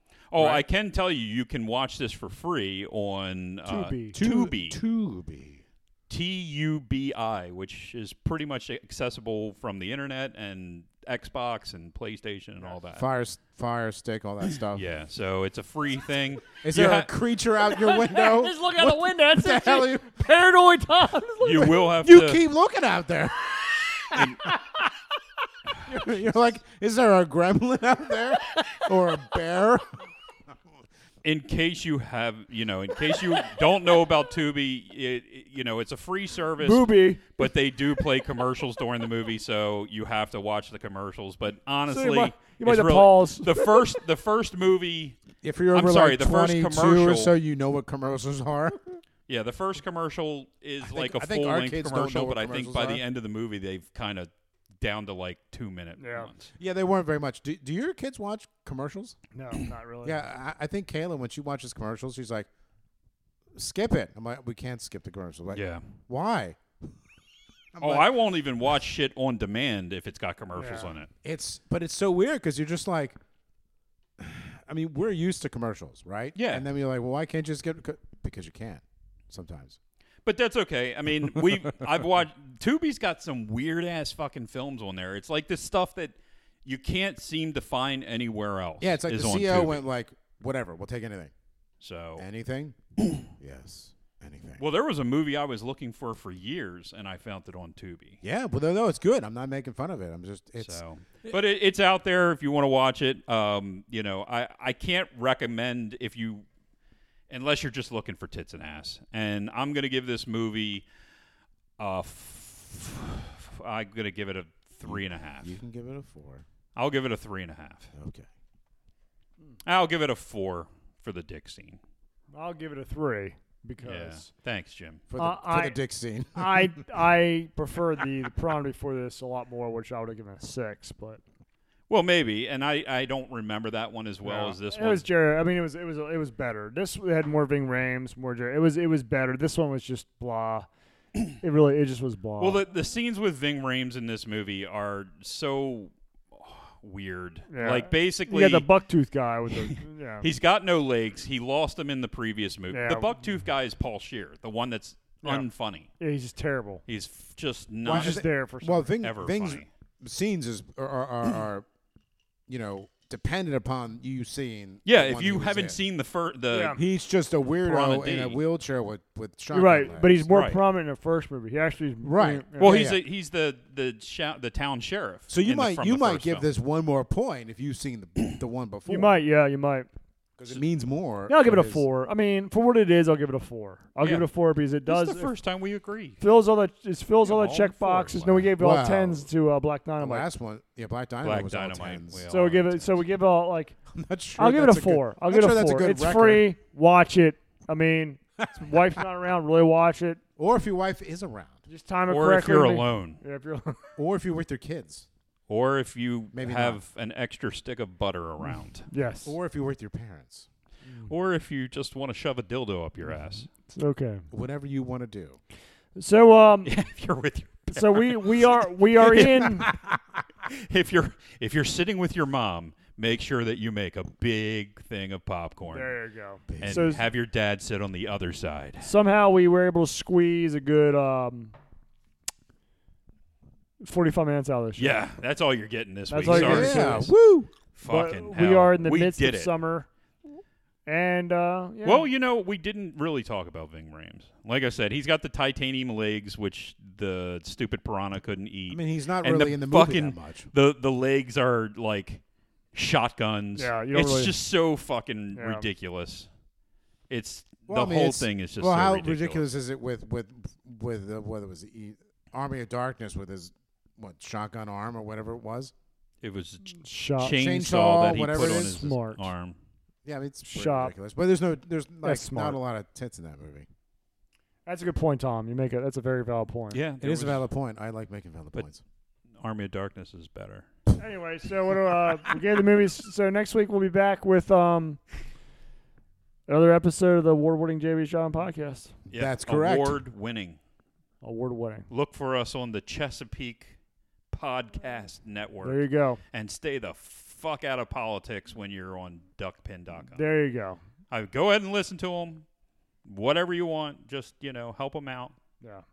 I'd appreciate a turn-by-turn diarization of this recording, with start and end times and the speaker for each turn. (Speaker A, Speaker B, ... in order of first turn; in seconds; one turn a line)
Speaker A: 0.3-4.8
Speaker B: 0.4-0.6
Speaker C: 3.6-4.2
Speaker B: 4.1-5.6
Speaker A: 6.1-13.1
Speaker B: 12.9-14.8
Speaker A: 14.7-17.1
Speaker B: 16.6-20.2
Speaker C: 17.6-21.8
Speaker A: 21.4-22.4
Speaker B: 21.6-24.4
Speaker B: 25.8-30.0
Speaker A: 31.2-45.2
Speaker C: 36.6-37.3
Speaker C: 41.9-43.9
Speaker B: 45.4-49.0
Speaker A: 45.7-47.3
Speaker A: 49.3-56.5
Speaker B: 50.8-53.0
Speaker C: 56.0-56.3
Speaker B: 56.6-59.2
Speaker C: 59.3-60.2
Speaker B: 60.0-62.5
Speaker B: 63.5-66.6
Speaker A: 65.5-65.9
Speaker B: 67.7-68.1
Speaker A: 67.8-71.1
Speaker C: 70.6-70.9
Speaker B: 71.2-73.2
Speaker B: 74.2-79.8
Speaker A: 76.3-76.7
Speaker A: 80.2-89.8
Speaker B: 88.8-91.3
Speaker A: 91.8-92.2
Speaker B: 92.2-92.8
Speaker A: 93.0-93.3
Speaker B: 93.3-94.6
Speaker A: 94.6-98.2
Speaker B: 98.2-100.8
Speaker A: 100.6-106.5
Speaker A: 107.3-110.8
Speaker A: 111.8-115.5
Speaker B: 114.8-116.4
Speaker A: 116.8-117.9
Speaker B: 117.9-118.3
Speaker A: 119.6-121.8
Speaker C: 122.3-124.3
Speaker A: 123.8-125.0
Speaker B: 125.1-126.8
Speaker C: 125.2-125.8
Speaker C: 126.3-131.2
Speaker A: 131.9-135.1
Speaker C: 134.2-140.7
Speaker C: 141.4-142.6
Speaker A: 142.4-148.7
Speaker C: 147.5-150.3
Speaker A: 149.5-155.9
Speaker C: 152.7-153.1
Speaker C: 155.2-155.5
Speaker C: 156.0-156.8
Speaker A: 156.9-158.2
Speaker B: 157.8-161.7
Speaker C: 157.9-158.9
Speaker A: 159.0-159.7
Speaker B: 162.5-165.8
Speaker A: 164.8-166.8
Speaker C: 166.5-166.8
Speaker B: 166.8-170.3
Speaker A: 167.6-168.4
Speaker C: 169.5-172.8
Speaker A: 170.3-170.6
Speaker B: 172.0-173.0
Speaker A: 172.6-176.5
Speaker B: 175.3-179.2
Speaker C: 178.9-179.9
Speaker B: 180.4-181.8
Speaker C: 181.3-185.3
Speaker A: 184.9-186.2
Speaker C: 186.2-190.3
Speaker A: 187.2-188.5
Speaker B: 188.6-189.3
Speaker B: 190.0-192.3
Speaker A: 191.2-192.9
Speaker C: 192.3-193.8
Speaker B: 193.9-196.5
Speaker C: 194.4-200.2
Speaker B: 200.4-201.6
Speaker C: 201.7-203.9
Speaker A: 202.1-203.2
Speaker B: 204.0-205.1
Speaker A: 205.5-208.9
Speaker B: 206.3-206.8
Speaker C: 208.9-209.4
Speaker B: 209.2-210.5
Speaker C: 210.9-211.1
Speaker A: 211.1-213.5
Speaker C: 213.6-214.2
Speaker B: 214.3-215.4
Speaker C: 215.9-216.7
Speaker A: 216.6-225.9
Speaker C: 217.7-219.7
Speaker C: 225.7-227.0
Speaker B: 226.5-227.0
Speaker A: 226.6-228.9
Speaker C: 228.8-231.6
Speaker C: 233.8-235.0
Speaker A: 234.8-237.1
Speaker C: 236.1-237.1
Speaker B: 236.2-237.5
Speaker A: 237.7-239.5
Speaker C: 237.8-239.9
Speaker C: 240.9-242.1
Speaker A: 241.8-252.2
Speaker B: 248.7-250.5
Speaker A: 252.7-256.3
Speaker C: 253.6-254.3
Speaker C: 255.3-255.7
Speaker A: 257.1-259.4
Speaker B: 257.7-265.7
Speaker A: 266.2-269.6
Speaker C: 266.7-267.4
Speaker B: 267.3-268.8
Speaker C: 268.4-269.3
Speaker B: 270.1-273.7
Speaker C: 270.4-270.9
Speaker C: 272.0-272.6
Speaker C: 274.7-276.8
Speaker A: 276.7-277.4
Speaker B: 277.0-278.8
Speaker A: 279.4-280.7
Speaker C: 281.0-285.0
Speaker C: 286.5-288.9
Speaker A: 289.1-290.6
Speaker B: 289.1-290.0
Speaker C: 291.2-291.9
Speaker A: 291.9-293.8
Speaker A: 294.3-300.2
Speaker C: 295.6-296.2
Speaker C: 300.1-300.8
Speaker A: 301.1-302.4
Speaker A: 303.1-305.4